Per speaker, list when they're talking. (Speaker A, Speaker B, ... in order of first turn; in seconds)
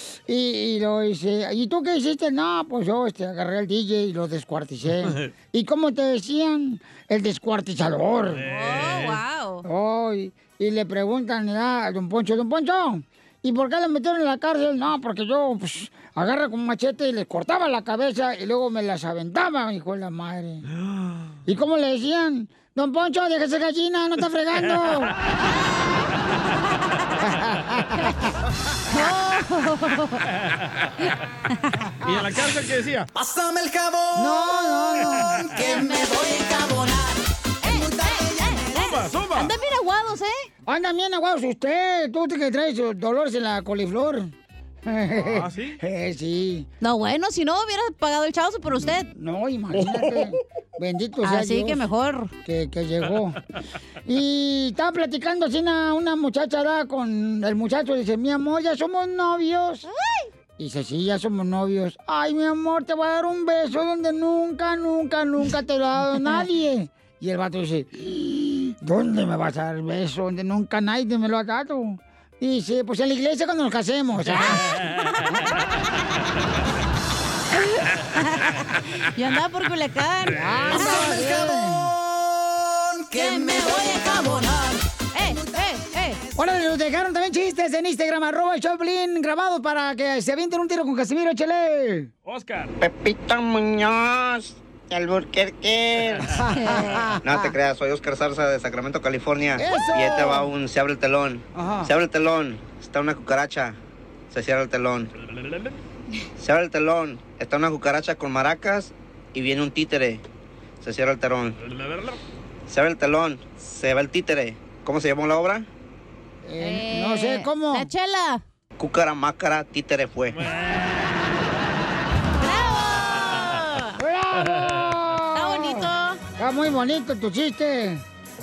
Speaker A: 0.3-8.4, 9.7-20.6, 21.5-25.1, 27.2-28.3, 34.2-35.4, 40.7-44.3, 44.9-46.7, 49.1-51.9, 52.5-53.4, 54.1-59.8, 60.6-74.6, 80.3-81.9, 86.4-92.1, 96.3-97.4, 99.6-100.5, 101.5-101.9, 116.4-117.9, 124.0-128.0
Speaker B: 5.0-5.3, 8.3-9.2, 20.7-21.3, 30.4-30.9, 32.0-33.1, 38.7-39.5, 45.2-45.8, 80.4-80.6, 92.2-92.8, 105.2-105.8, 111.6-112.2, 120.3-121.3
Speaker C: 8.4-9.7, 28.9-30.2, 35.6-36.4, 37.6-40.5, 46.8-49.1, 51.2-52.3, 59.9-60.3, 74.2-75.6, 77.6-81.7, 83.1-84.5, 85.1-86.2, 96.5-97.1, 116.6-118.4, 122.3-124.0, 125.3-126.2
Speaker D: 33.1-39.0, 80.9-81.3, 81.8-86.6
Speaker E: 92.8-96.3, 97.2-103.8, 104.3-105.1, 106.4-110.2, 110.8-111.6, 112.7-115.7, 118.8-120.4